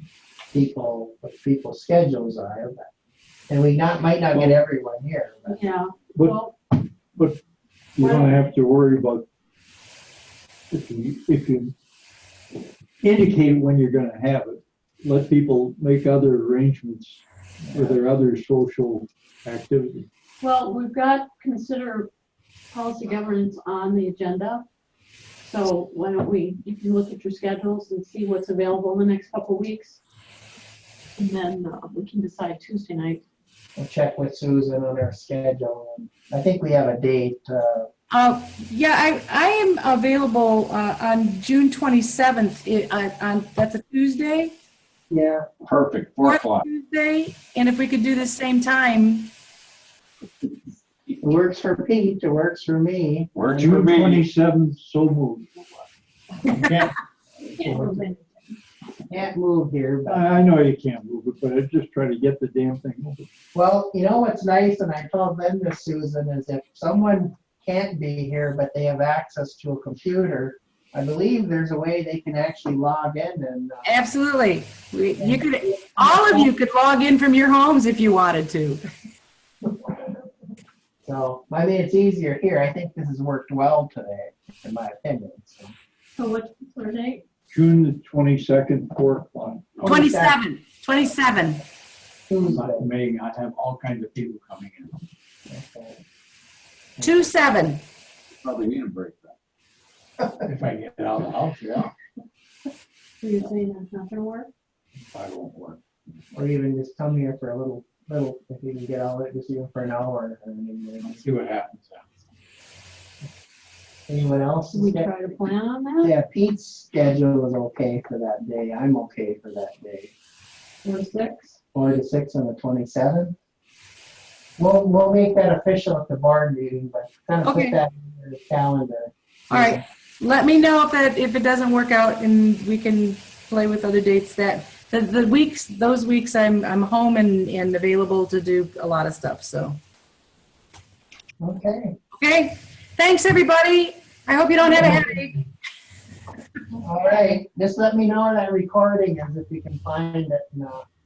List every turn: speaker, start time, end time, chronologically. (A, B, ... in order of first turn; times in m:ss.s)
0:00.5-0:02.9 A
0:03.5-0:05.6 A
0:05.5-0:06.5 B
0:06.2-0:07.4 C
0:08.0-0:09.3 C
0:08.0-0:08.4 B
0:10.7-0:11.8 C
0:13.0-0:20.1 C
0:20.4-0:22.1 B
0:22.7-0:24.6 B
0:25.4-0:30.0 B
0:31.2-0:33.2 B
0:33.8-0:37.9 A
0:38.1-0:44.5 D
0:45.1-0:45.5 A
0:45.6-0:46.6 E
0:46.2-0:49.3 D
0:51.2-0:53.3 A
0:53.4-0:54.3 E
0:53.5-0:55.9 C
0:56.6-0:56.9 E
0:57.6-0:58.6 B
0:59.1-1:00.5 A
1:00.1-1:03.3 C
1:03.5-1:14.1 A
1:13.8-1:18.8 D
1:15.2-1:15.5 A
1:16.0-1:16.4 A
1:21.0-1:25.7 A
1:26.2-1:27.2 B
1:27.5-1:29.8 C
1:29.8-1:30.4 A
1:29.8-1:31.6 D
1:32.3-1:32.9 A
1:32.5-1:34.9 E
1:35.5-1:36.0 A
1:37.0-1:37.2 A
1:37.0-1:37.8 D
1:38.4-1:39.4 E
1:40.7-1:41.9 E
1:43.2-1:44.5 B
1:45.1-1:45.8 E
1:46.3-1:51.1 A
1:51.1-1:52.0 E
1:54.1-1:55.1 A
1:54.7-1:56.1 B
1:56.0-2:00.1 A
2:00.8-2:01.6 B
2:01.7-2:03.4 A
2:04.6-2:09.8 A
2:07.4-2:07.8 D
2:09.5-2:19.8 D
2:21.4-2:22.0 A
2:22.2-2:25.4 D
2:24.7-2:25.0 A
2:26.8-2:30.8 A